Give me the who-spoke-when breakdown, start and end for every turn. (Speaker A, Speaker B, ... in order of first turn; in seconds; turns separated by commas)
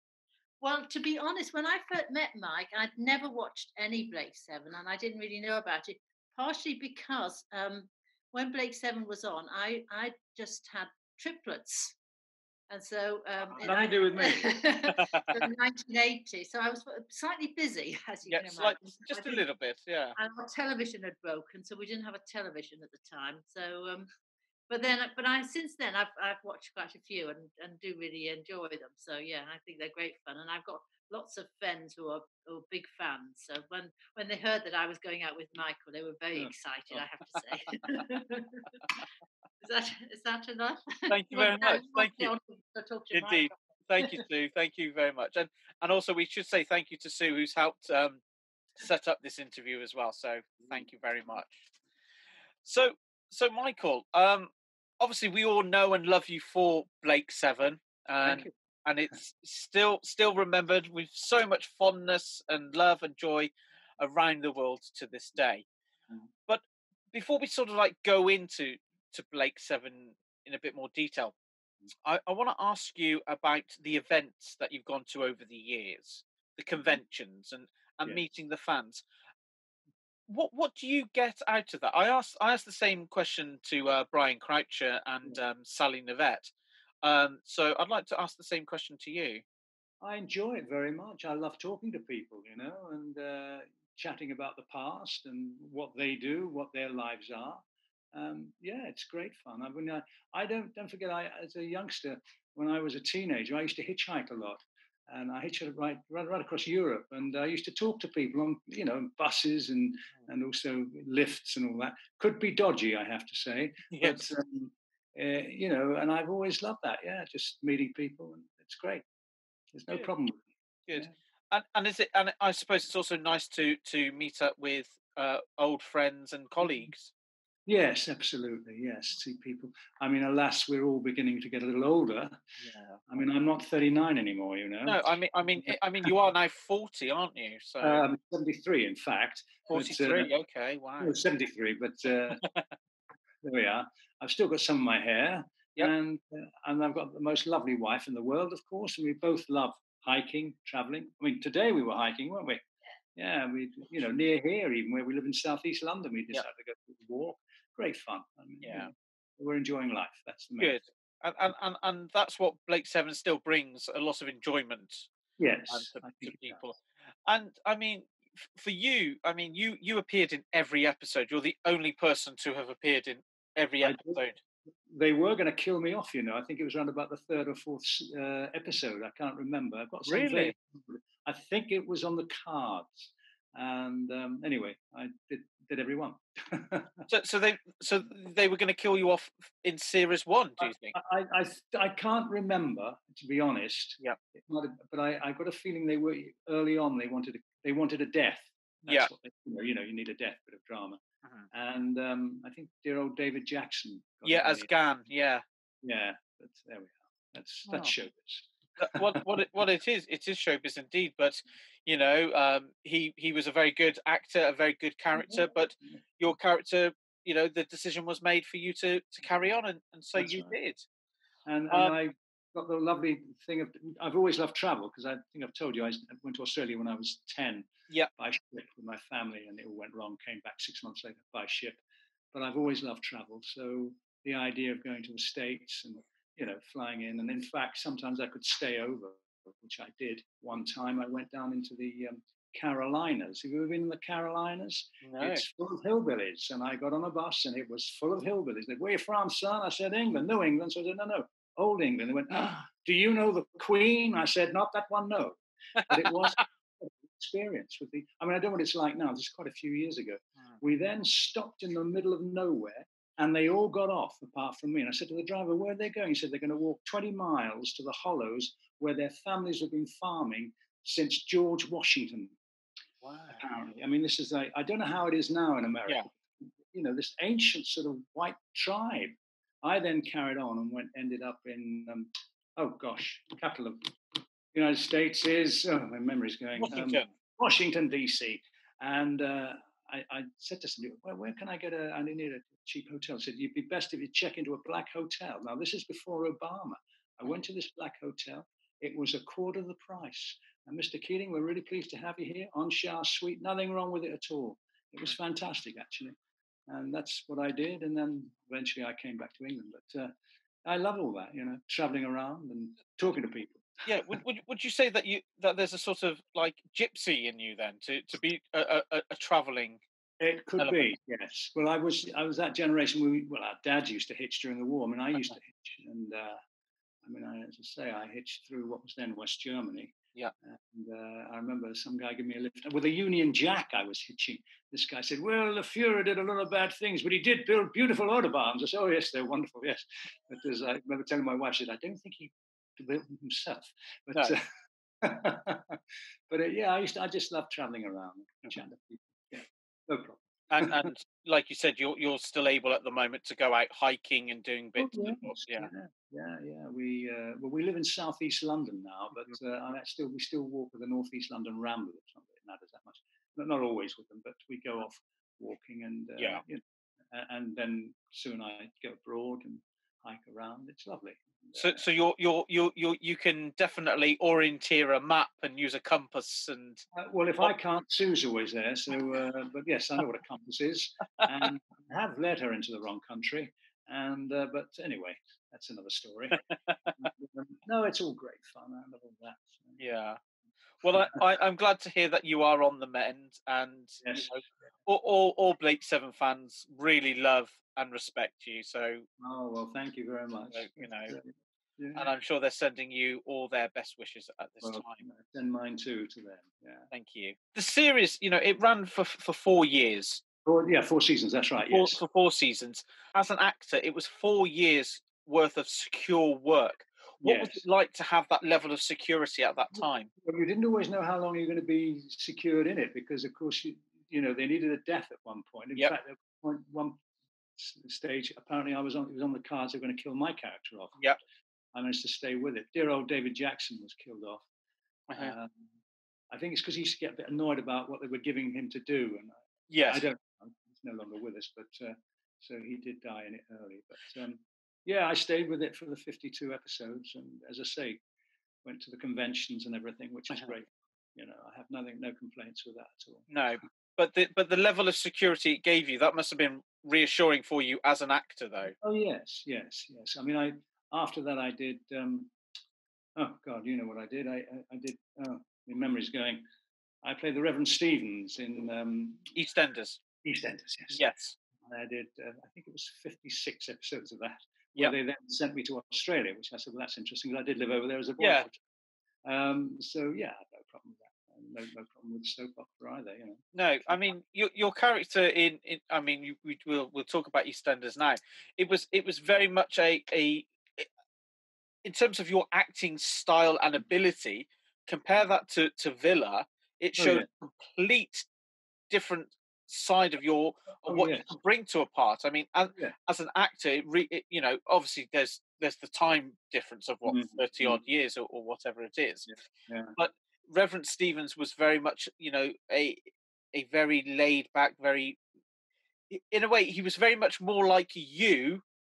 Speaker A: 0.6-12.0, Speaker A: 12.7-19.4, Speaker B: 13.6-14.6, Speaker C: 14.9-15.5, Speaker C: 18.3-20.2, Speaker A: 20.1-24.1, Speaker A: 24.7-38.9, Speaker A: 39.6-44.2, Speaker C: 41.1-42.3, Speaker C: 43.1-48.2, Speaker C: 48.8-51.6, Speaker C: 52.6-65.7, Speaker B: 58.2-58.5, Speaker C: 66.5-71.3, Speaker C: 72.0-79.0, Speaker C: 80.3-86.5, Speaker C: 87.0-89.4, Speaker B: 90.0-119.1, Speaker C: 113.9-114.3, Speaker B: 119.7-121.1, Speaker C: 120.9-127.1, Speaker B: 127.7-132.4, Speaker C: 132.6-133.0, Speaker B: 133.1-136.1, Speaker C: 134.9-138.1, Speaker B: 137.8-140.3, Speaker C: 139.7-141.2, Speaker B: 141.0-142.4, Speaker C: 142.3-142.7, Speaker B: 143.4-152.6, Speaker B: 153.2-160.8, Speaker C: 158.6-158.9, Speaker C: 160.6-165.1, Speaker B: 165.4-166.6, Speaker C: 165.7-174.4, Speaker B: 173.8-174.2, Speaker B: 174.9-187.1, Speaker C: 180.1-180.6, Speaker C: 187.1-191.0, Speaker B: 190.6-204.7, Speaker C: 204.2-205.4, Speaker B: 205.8-209.4, Speaker C: 207.7-207.9, Speaker C: 208.8-220.8, Speaker B: 215.2-215.5, Speaker B: 220.2-220.5, Speaker B: 221.5-231.8, Speaker B: 232.3-272.4, Speaker C: 245.0-245.5, Speaker C: 255.8-256.4, Speaker C: 273.0-273.4, Speaker B: 273.4-306.2, Speaker C: 286.6-287.1, Speaker B: 306.7-310.1, Speaker B: 310.6-314.2, Speaker C: 313.9-319.8, Speaker B: 320.2-326.4, Speaker C: 320.6-320.9, Speaker B: 327.0-344.5, Speaker B: 345.0-350.9, Speaker C: 350.5-355.7, Speaker B: 354.8-371.8, Speaker C: 371.6-376.8, Speaker B: 376.9-386.4, Speaker C: 386.4-386.9, Speaker B: 387.0-389.8, Speaker C: 389.8-390.2, Speaker C: 390.8-399.1, Speaker B: 394.0-394.3, Speaker B: 399.2-402.1, Speaker C: 400.5-401.2, Speaker C: 401.9-405.0, Speaker B: 404.6-406.9, Speaker C: 406.9-410.2, Speaker B: 410.4-412.0, Speaker C: 411.6-420.1, Speaker B: 417.2-417.6, Speaker B: 419.8-427.0, Speaker B: 427.6-431.1, Speaker B: 431.7-434.4, Speaker C: 435.1-435.4, Speaker B: 435.2-435.7, Speaker B: 436.3-448.0, Speaker C: 439.7-440.1, Speaker B: 448.6-453.3, Speaker C: 453.3-458.8, Speaker B: 458.7-462.3, Speaker B: 463.2-466.4, Speaker B: 467.0-469.3, Speaker C: 469.4-470.0, Speaker B: 470.2-471.0, Speaker C: 470.9-471.4, Speaker B: 471.6-478.6, Speaker C: 478.2-478.5, Speaker B: 479.2-484.0, Speaker C: 483.5-490.9, Speaker C: 491.8-498.3, Speaker B: 497.0-497.3, Speaker C: 498.9-509.3, Speaker B: 500.9-501.3, Speaker B: 507.1-507.8, Speaker B: 509.3-510.0, Speaker C: 510.0-515.2, Speaker C: 516.1-518.6